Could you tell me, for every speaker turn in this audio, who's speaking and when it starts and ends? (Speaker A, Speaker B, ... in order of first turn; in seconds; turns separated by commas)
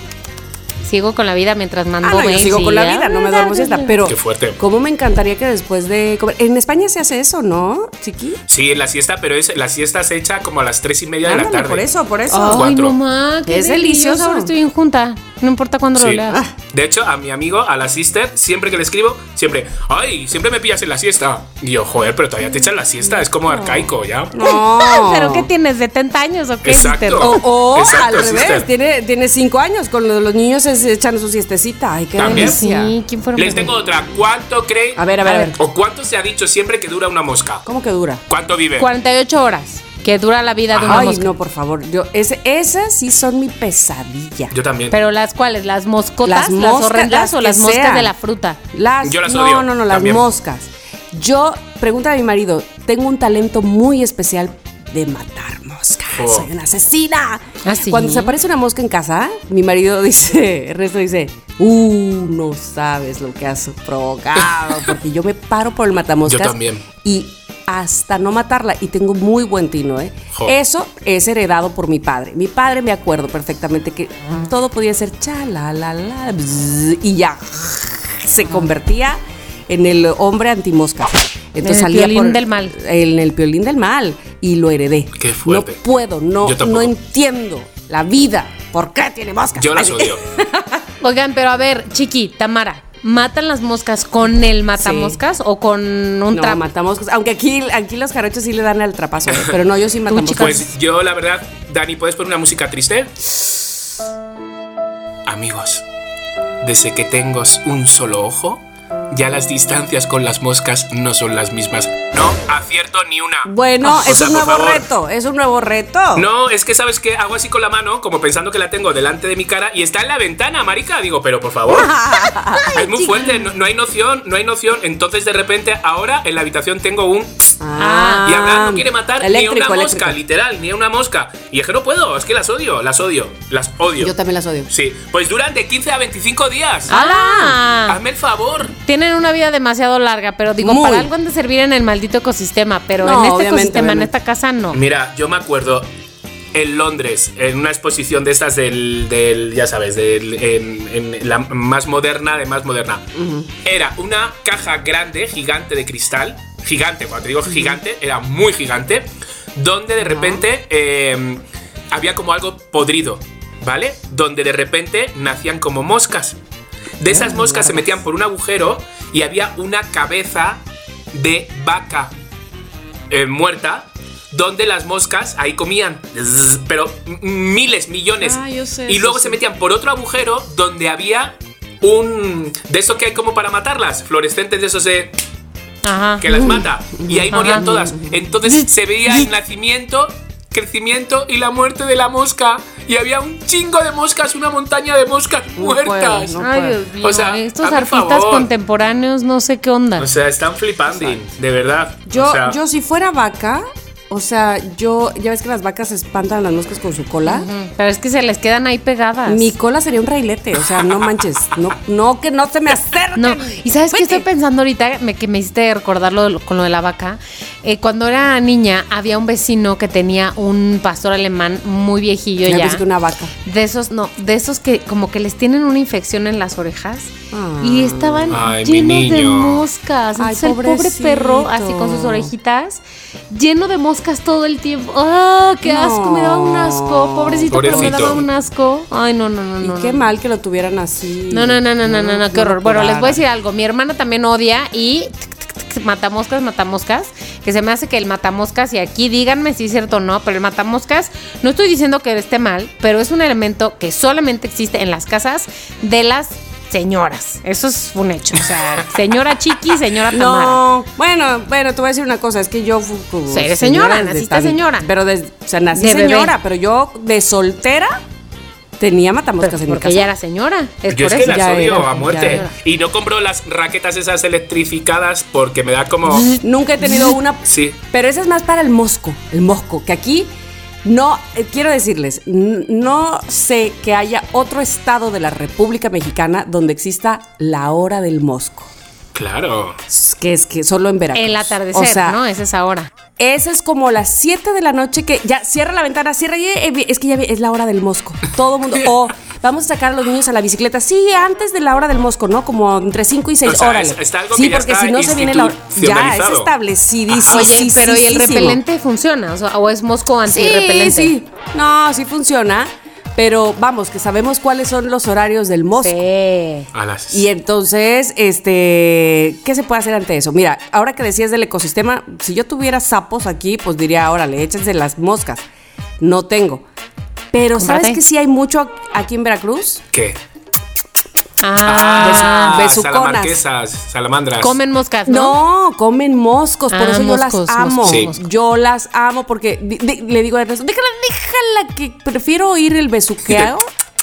Speaker A: 0.8-3.9, Speaker B: 2.0-8.4, Speaker C: 4.0-4.6, Speaker C: 8.5-11.8, Speaker B: 11.2-12.7, Speaker A: 12.3-16.4, Speaker C: 12.4-13.0, Speaker B: 13.4-14.5, Speaker C: 16.0-24.3, Speaker B: 23.5-25.5, Speaker A: 24.4-27.4, Speaker C: 26.6-28.7, Speaker B: 27.2-32.9, Speaker C: 32.2-32.6, Speaker A: 32.2-33.7, Speaker C: 33.4-37.6, Speaker B: 35.0-35.6, Speaker B: 37.6-38.2, Speaker C: 38.3-38.9, Speaker A: 38.8-41.3, Speaker C: 40.7-41.1, Speaker B: 40.8-44.5, Speaker C: 44.5-45.0, Speaker A: 44.9-48.6, Speaker B: 46.2-48.1, Speaker B: 48.7-90.8, Speaker C: 49.0-50.2, Speaker C: 56.1-56.5, Speaker A: 57.6-58.3, Speaker C: 66.2-66.8, Speaker A: 81.6-82.7, Speaker C: 85.2-85.8, Speaker C: 86.4-86.9, Speaker C: 89.6-90.2, Speaker A: 91.0-96.6, Speaker B: 94.8-95.2, Speaker B: 96.3-100.7, Speaker A: 100.1-100.7, Speaker C: 100.4-103.1, Speaker C: 105.2-105.8, Speaker C: 106.6-114.8, Speaker B: 113.5-116.3, Speaker C: 116.1-121.9, Speaker B: 121.7-123.3, Speaker C: 122.7-127.5, Speaker B: 127.6-130.2, Speaker A: 127.8-128.2, Speaker C: 128.2-134.1, Speaker B: 134.0-134.7, Speaker C: 134.7-137.0, Speaker A: 136.9-138.0, Speaker B: 136.9-137.5, Speaker C: 137.9-138.7, Speaker A: 138.8-144.8, Speaker B: 140.6-141.1, Speaker B: 143.0-144.1, Speaker C: 144.7-145.9, Speaker C: 146.5-153.0, Speaker B: 153.2-153.5, Speaker C: 153.6-166.4, Speaker B: 157.5-157.8, Speaker B: 160.0-160.4, Speaker C: 167.0-172.1, Speaker B: 167.1-168.0, Speaker C: 173.1-185.1, Speaker B: 178.2-179.4, Speaker A: 185.8-186.2, Speaker C: 186.2-196.4, Speaker B: 186.3-188.2, Speaker A: 187.3-187.6, Speaker A: 188.4-189.3, Speaker B: 195.5-196.8, Speaker A: 196.4-200.1, Speaker C: 197.0-198.5, Speaker C: 200.0-202.6, Speaker B: 202.1-207.5, Speaker A: 207.2-209.5, Speaker B: 209.2-214.2, Speaker A: 213.2-222.8, Speaker B: 222.4-223.3, Speaker A: 223.4-240.0, Speaker B: 227.3-228.4, Speaker C: 228.3-229.6, Speaker B: 230.2-232.3, Speaker B: 235.6-238.2, Speaker C: 237.5-238.2, Speaker B: 239.6-243.2, Speaker A: 241.3-260.6, Speaker B: 260.1-268.0, Speaker A: 263.3-264.9, Speaker A: 265.7-266.3, Speaker B: 268.8-270.1, Speaker A: 269.4-272.5, Speaker C: 270.9-276.3, Speaker B: 271.2-272.4, Speaker A: 276.1-277.1, Speaker B: 276.3-280.3, Speaker C: 277.4-277.8, Speaker B: 280.8-288.7, Speaker C: 289.1-289.8, Speaker B: 289.9-292.2, Speaker A: 291.1-292.9, Speaker B: 293.1-308.6, Speaker C: 303.4-306.5, Speaker C: 307.1-307.6, Speaker A: 307.3-311.1, Speaker B: 310.2-316.0, Speaker A: 315.8-316.7, Speaker C: 316.7-317.3, Speaker B: 317.1-325.4, Speaker B: 326.0-326.6, Speaker B: 327.3-329.8, Speaker A: 327.5-328.0, Speaker C: 329.9-330.2, Speaker A: 331.4-332.6, Speaker C: 331.6-334.5, Speaker B: 332.0-333.4, Speaker A: 334.4-335.4, Speaker B: 335.1-343.7, Speaker A: 336.7-338.2, Speaker C: 337.8-338.1